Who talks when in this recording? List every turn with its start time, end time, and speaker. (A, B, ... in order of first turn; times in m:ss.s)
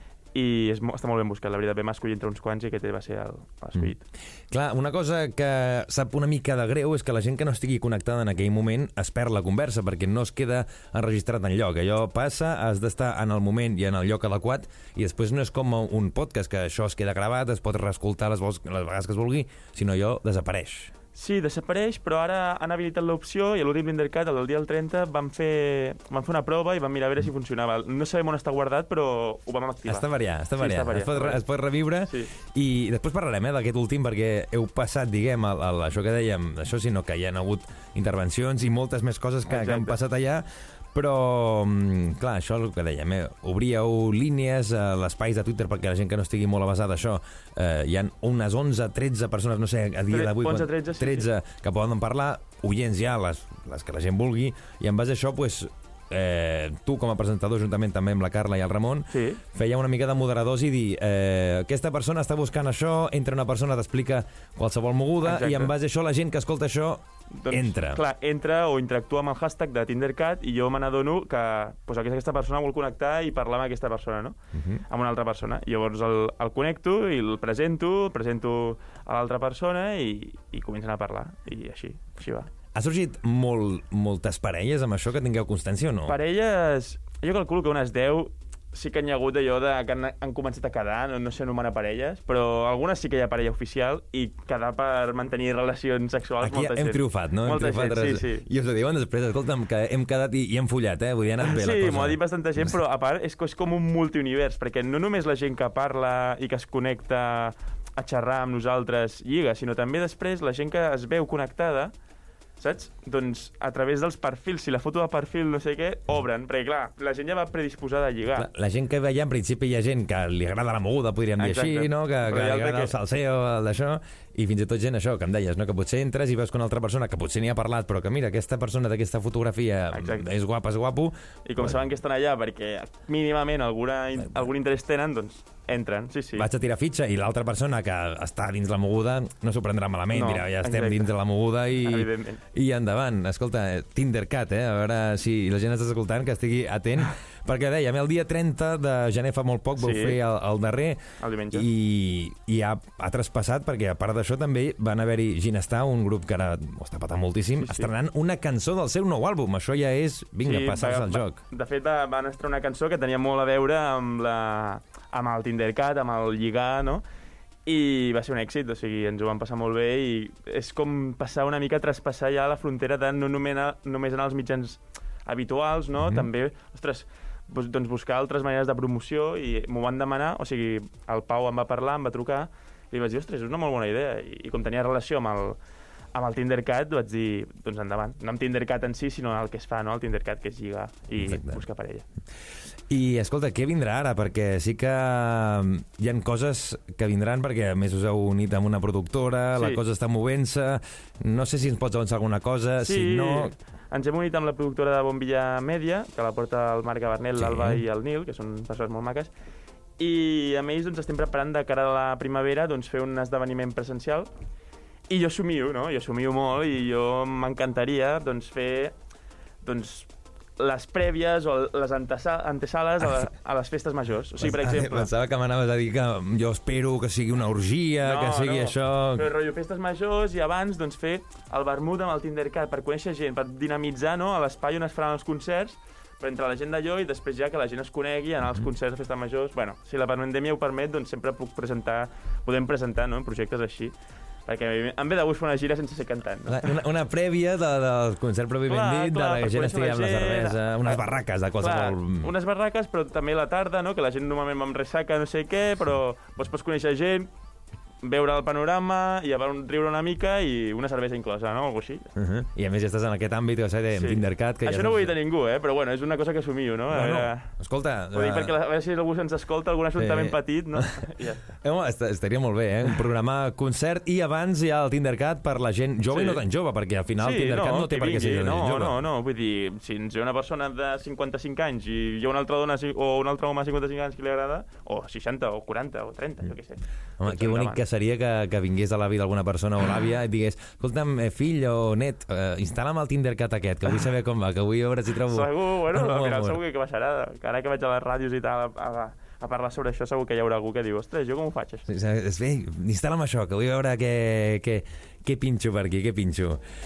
0:00.3-0:04.0 A
0:04.5-0:20.9 B
0:21.2-0:30.1 A
0:29.8-1:08.0 B
0:30.6-0:31.4 A
0:32.1-0:32.3 A
0:39.5-0:40.0 A
0:50.1-0:51.3 A
0:59.1-0:59.4 A
1:05.2-1:05.7 A
1:07.4-1:14.4 A
1:14.6-1:14.8 B
1:14.9-1:22.5 A
1:22.7-1:26.2 B
1:26.1-1:38.5 A
1:36.4-1:42.7 B
1:41.4-1:51.9 A
1:52.6-1:58.5 A
1:58.4-2:11.8 B
2:01.4-2:03.0 A
2:09.9-2:10.3 A
2:11.4-2:16.5 A
2:16.4-2:31.0 B
2:20.1-2:21.1 A
2:21.8-2:22.4 A
2:29.8-2:30.2 A
2:31.2-2:31.7 A
2:31.5-2:41.4 B
2:37.6-2:37.9 A
2:40.4-2:47.0 A
2:47.7-3:05.6 A
2:56.0-2:56.3 B
3:06.2-3:12.0 A
3:11.2-3:11.6 B
3:12.9-3:23.5 B
3:19.6-3:19.8 A
3:22.8-3:29.3 A
3:27.4-3:27.8 B
3:30.0-3:34.3 A
3:35.1-3:38.9 A
3:39.6-3:45.1 A
3:44.4-3:49.3 B
3:48.0-4:03.9 A
4:04.5-4:06.8 A
4:06.5-4:12.3 B
4:08.7-4:11.1 A
4:11.6-4:17.3 A
4:18.0-4:22.1 A
4:22.2-4:25.1 B
4:23.9-4:27.5 A
4:26.9-4:28.5 B
4:28.1-4:31.5 A
4:30.0-4:31.0 B
4:31.6-4:39.0 B
4:36.1-4:36.4 A
4:37.2-4:47.8 A
4:47.2-4:56.6 B
4:55.3-5:01.8 A
5:01.9-5:06.6 B